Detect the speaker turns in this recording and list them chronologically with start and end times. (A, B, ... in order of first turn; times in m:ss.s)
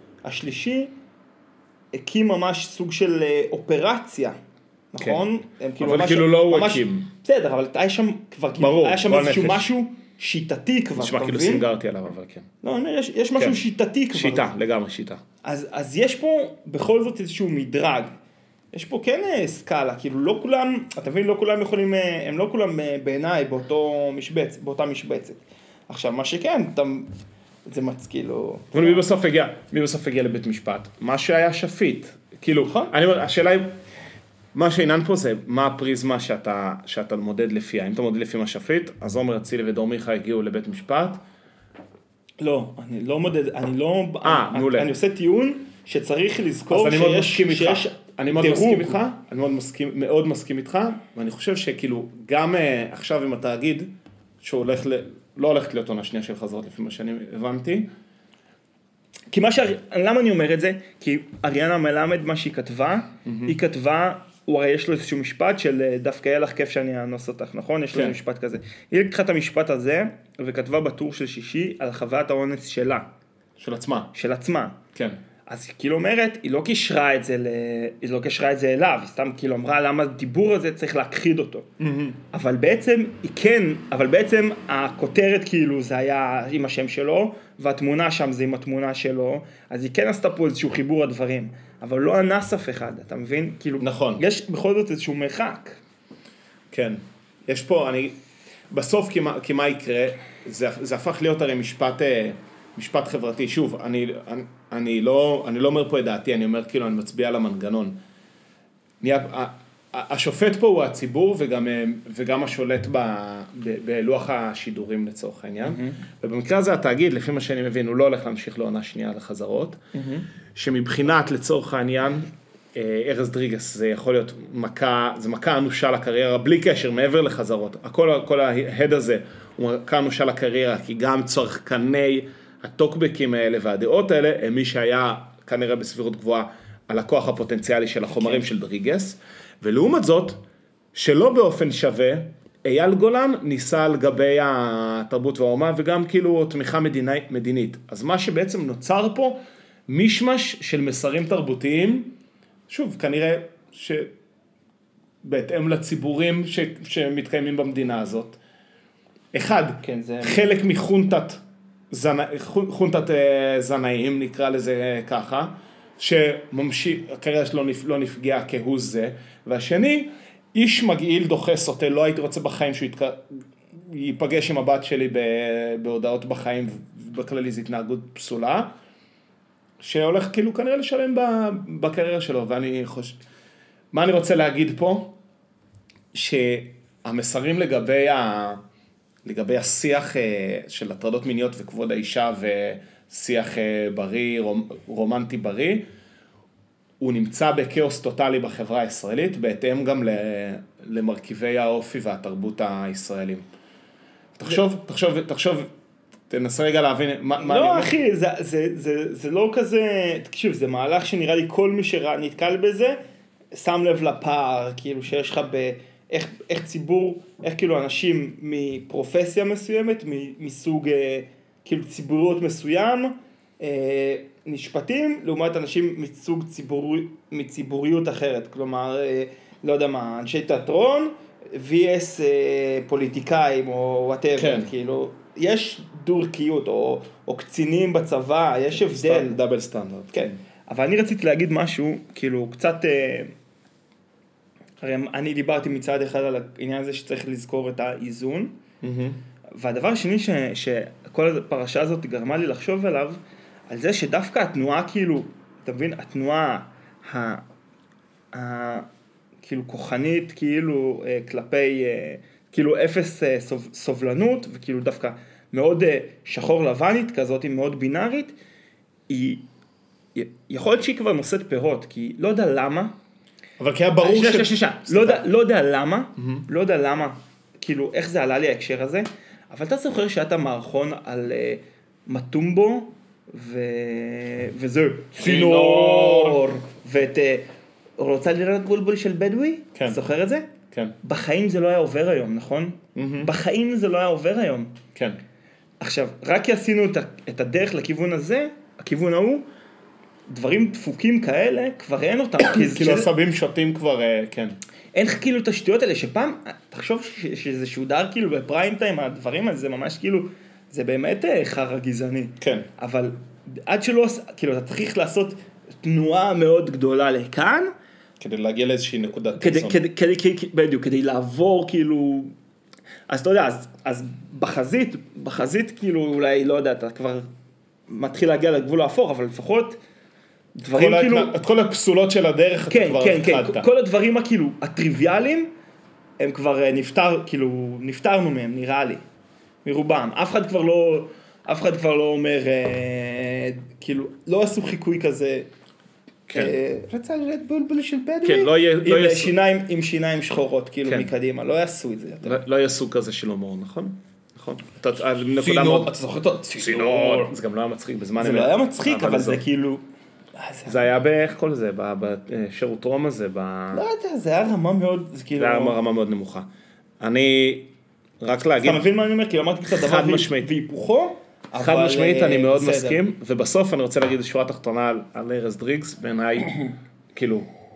0:00.2-0:00.9 A
0:01.9-0:04.4 A
0:04.9-0:11.7 A
0:05.0-0:05.2 B
0:05.8-0:07.1 B
0:08.6-0:09.7 B
0:11.0-0:12.5 B
0:12.6-0:14.5 A
0:13.4-0:13.6 B
0:14.1-0:15.2 B
0:15.4-0:18.1 A
0:18.7-0:27.1 A
0:27.7-0:29.0 A
0:28.7-0:33.8 B
0:32.7-0:32.9 A
0:34.5-0:41.2 B
0:42.4-0:49.0 A
0:44.2-0:44.9 B
0:46.7-0:53.9 B
0:54.4-0:57.9 B
0:59.3-1:13.1 A
1:03.2-1:03.6 B
1:13.6-1:14.1 B
1:14.1-1:14.8 A
1:15.5-1:21.7 A
1:21.8-1:22.2 B
1:22.3-1:35.8 A
1:33.8-1:34.2 B
1:36.7-1:38.2 B
1:38.7-1:48.0 B
1:49.0-1:59.8 B
1:55.6-1:56.0 A
1:59.9-2:00.3 A
2:00.5-2:20.4 B
2:18.1-2:18.4 A
2:20.9-2:32.2 B
2:32.7-2:34.1 B
2:35.2-2:38.4 B
2:39.3-2:58.7 B
2:39.8-2:40.5 A
2:59.8-3:03.2 B
3:03.9-3:05.2 B
3:06.1-3:08.6 B
3:09.2-3:15.9 B
3:17.0-3:23.5 B
3:24.4-3:25.7 B
3:26.3-3:27.9 B
3:27.4-3:33.0 A
3:33.5-3:59.4 A
3:54.4-3:54.7 B
3:58.7-4:00.4 B
4:00.1-4:03.3 A
4:04.8-4:08.6 A
4:08.8-4:09.2 B
4:09.5-4:17.5 A
4:18.3-4:18.9 A
4:19.4-4:28.4 A
4:29.1-4:29.4 A
4:30.2-4:33.0 A
4:33.6-4:35.3 B
4:34.0-4:50.5 A
4:36.2-4:36.4 B
4:45.2-4:46.4 B
4:49.8-4:50.0 B
4:51.0-4:54.8 A
4:53.0-4:53.3 B
4:55.8-4:59.5 A
5:00.3-5:03.1 A
5:02.4-5:04.6 B
5:04.9-5:17.7 A
5:12.4-5:12.7 B
5:18.2-5:19.8 B
5:19.4-5:22.3 A
5:23.1-5:27.3 A
5:27.9-5:29.8 A
5:30.6-5:31.3 A
5:30.7-5:33.7 B
5:32.7-5:35.5 A
5:36.2-5:39.0 A
5:39.6-5:45.5 A
5:46.3-5:46.6 B
5:46.3-5:52.4 A
5:48.2-5:49.3 B
5:50.9-5:51.1 B
5:52.2-5:55.9 B
5:55.4-5:57.3 A
5:56.6-5:59.4 B
5:58.2-5:59.8 A
6:00.4-6:00.9 A
6:00.7-6:03.9 B
6:03.7-6:05.8 A
6:05.4-6:06.5 B
6:07.0-6:07.7 B
6:08.2-6:08.8 B
6:08.6-6:13.0 A
6:09.7-6:10.5 B
6:11.5-6:17.5 B